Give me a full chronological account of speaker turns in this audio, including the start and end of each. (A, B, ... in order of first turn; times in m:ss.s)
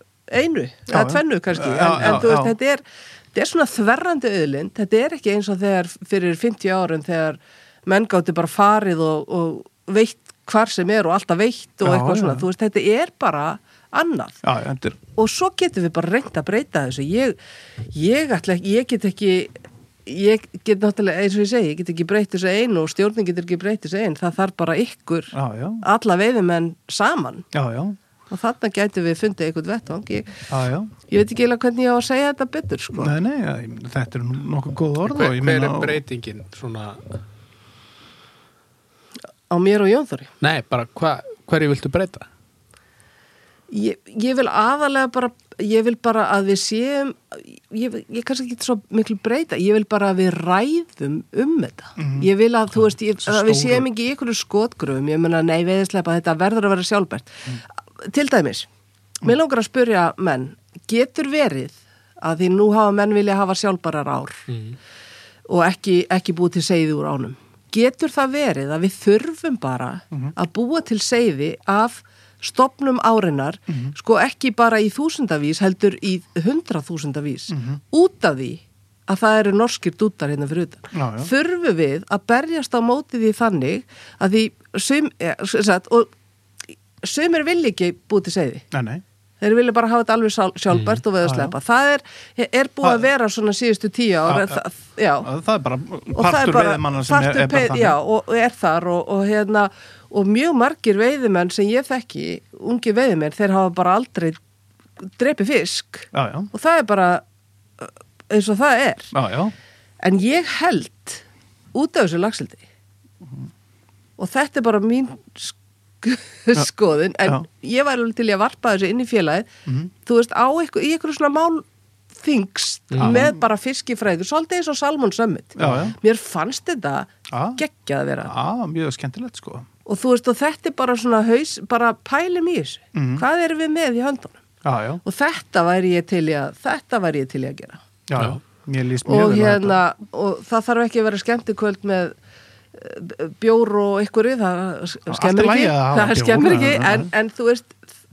0:00.3-0:14.4 A
0:00.9-0:02.5 B
0:11.8-0:12.5 B
0:14.4-0:15.0 B
0:15.2-0:17.4 A
0:17.9-0:27.5 A
0:25.3-0:25.8 B
0:27.5-0:28.0 B
0:28.3-0:30.4 A
0:30.5-0:30.9 B
0:31.1-0:33.1 A
0:32.9-0:36.0 B
0:35.0-0:37.2 C
0:39.5-0:40.3 A
0:40.4-0:42.3 C
0:43.7-0:57.4 A
0:52.0-0:52.3 B
0:53.3-0:53.8 B
0:58.0-0:58.7 A
0:59.2-1:04.4 A
1:04.5-1:04.8 C
1:05.5-1:26.1 A
1:13.7-1:13.9 B
1:17.5-1:17.8 B
1:20.9-1:21.3 B
1:27.0-1:28.6 A
1:28.7-1:29.0 B
1:29.4-1:35.3 A
1:30.7-1:31.0 C
1:31.2-1:31.5 B
1:34.3-1:34.6 B
1:35.2-1:38.0 B
1:36.1-1:44.4 A
1:45.0-1:47.2 A
1:46.1-1:46.5 B
1:47.8-1:49.1 A
1:49.1-1:49.5 B
1:50.0-1:52.6 A
1:54.2-1:59.5 A
1:59.6-1:59.9 B
2:00.0-2:08.3 A
2:02.9-2:03.2 C
2:03.0-2:03.4 B
2:05.6-2:06.0 B
2:07.3-2:07.6 B
2:08.2-2:09.7 B
2:09.8-2:14.4 A
2:12.9-2:13.2 B
2:14.6-2:15.0 B
2:15.0-2:17.8 A
2:18.1-2:19.8 B
2:19.0-2:22.1 A
2:22.7-2:27.8 A
2:25.1-2:27.1 B